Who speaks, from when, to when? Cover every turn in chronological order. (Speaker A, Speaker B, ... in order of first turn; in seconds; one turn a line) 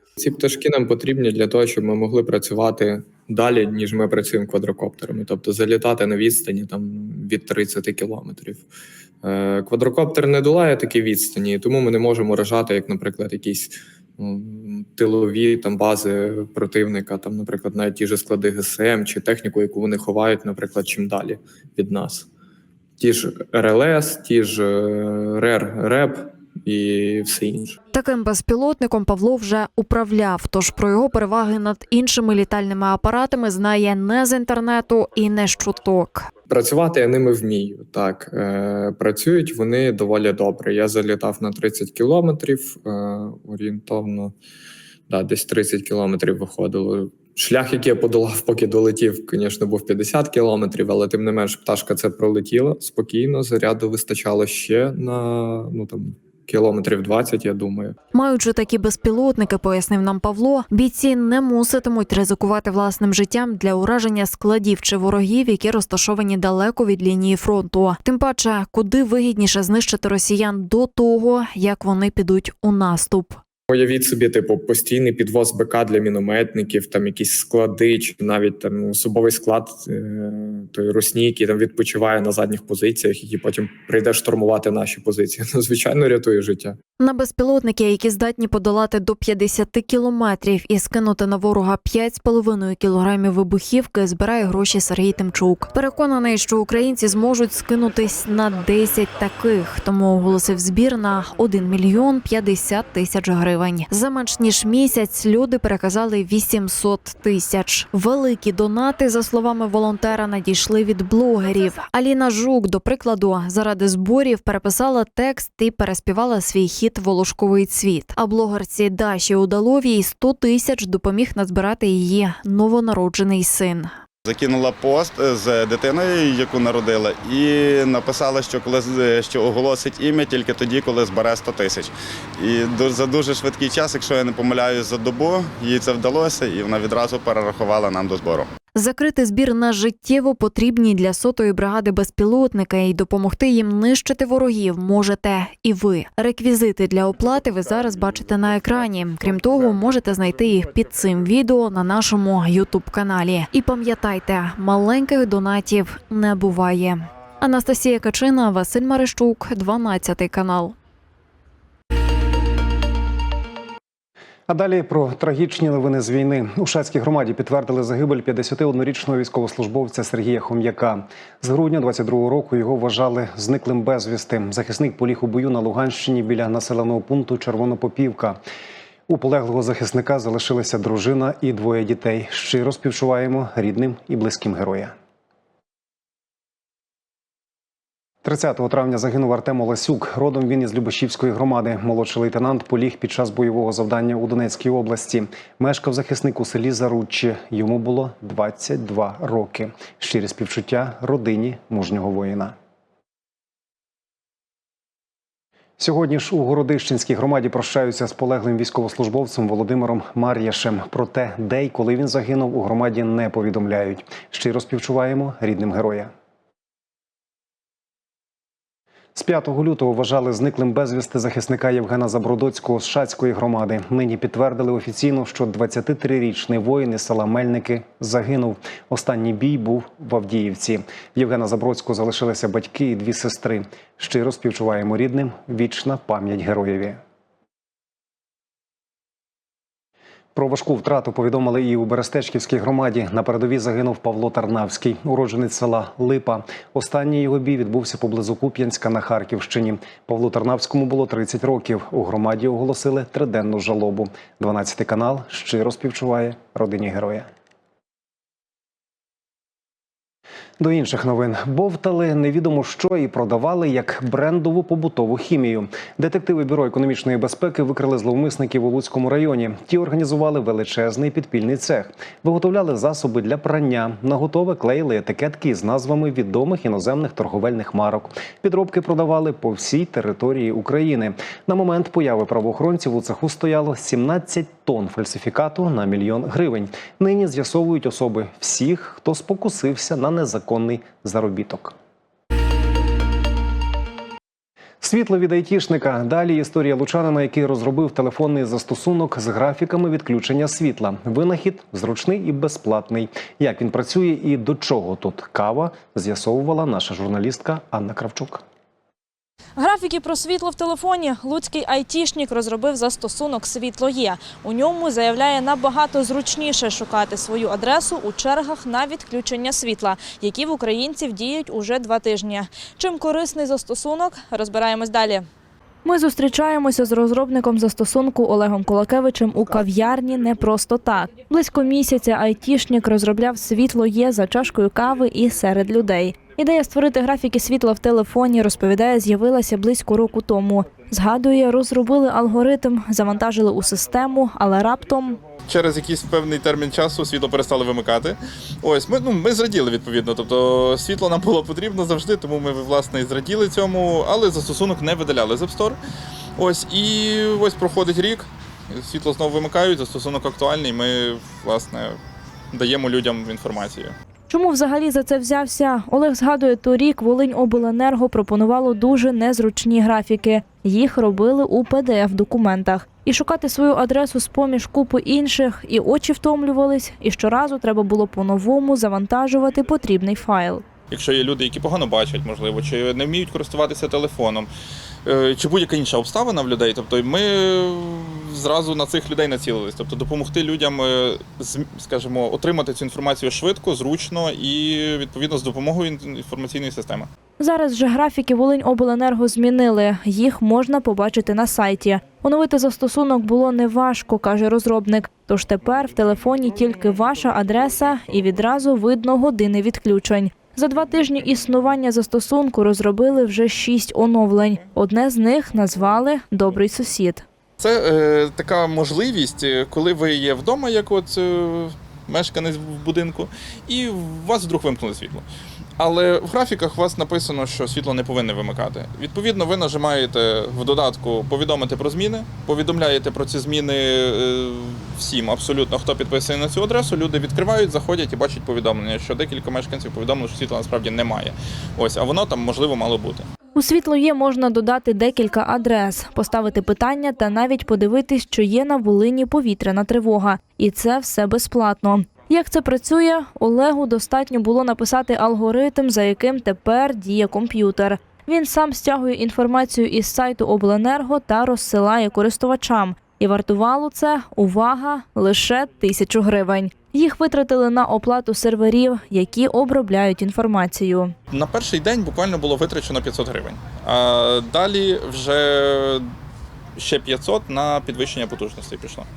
Speaker A: 0.2-8.7
Speaker A: 9.2-22.3
Speaker A: 23.0-27.8
Speaker B: 27.9-36.3
Speaker A: 36.5-44.3
Speaker A: 45.1-58.0
Speaker B: 58.1-73.4
Speaker A: 73.7-86.8
Speaker B: 87.0-123.9
Speaker C: 124.2-138.5
Speaker B: 138.7-160.8
Speaker D: 164.5-178.4
Speaker D: 179.1-184.9
Speaker D: 188.2-202.5
Speaker D: 205.8-216.1
Speaker D: 219.1-237.0
Speaker D: 240.3-257.3
Speaker D: 260.6-291.8
Speaker D: 294.8-308.4
Speaker E: 309.6-325.3
Speaker E: 325.8-345.2
Speaker F: 345.4-355.8
Speaker F: 356.4-362.0
Speaker F: 362.5-363.9
Speaker E: 364.3-380.6
Speaker F: 380.9-384.5
Speaker F: 385.1-397.1
Speaker E: 397.4-417.2
Speaker F: 417.6-425.2
Speaker F: 425.8-443.3
Speaker E: 443.6-471.1
Speaker F: 471.3-476.0
Speaker F: 476.8-479.1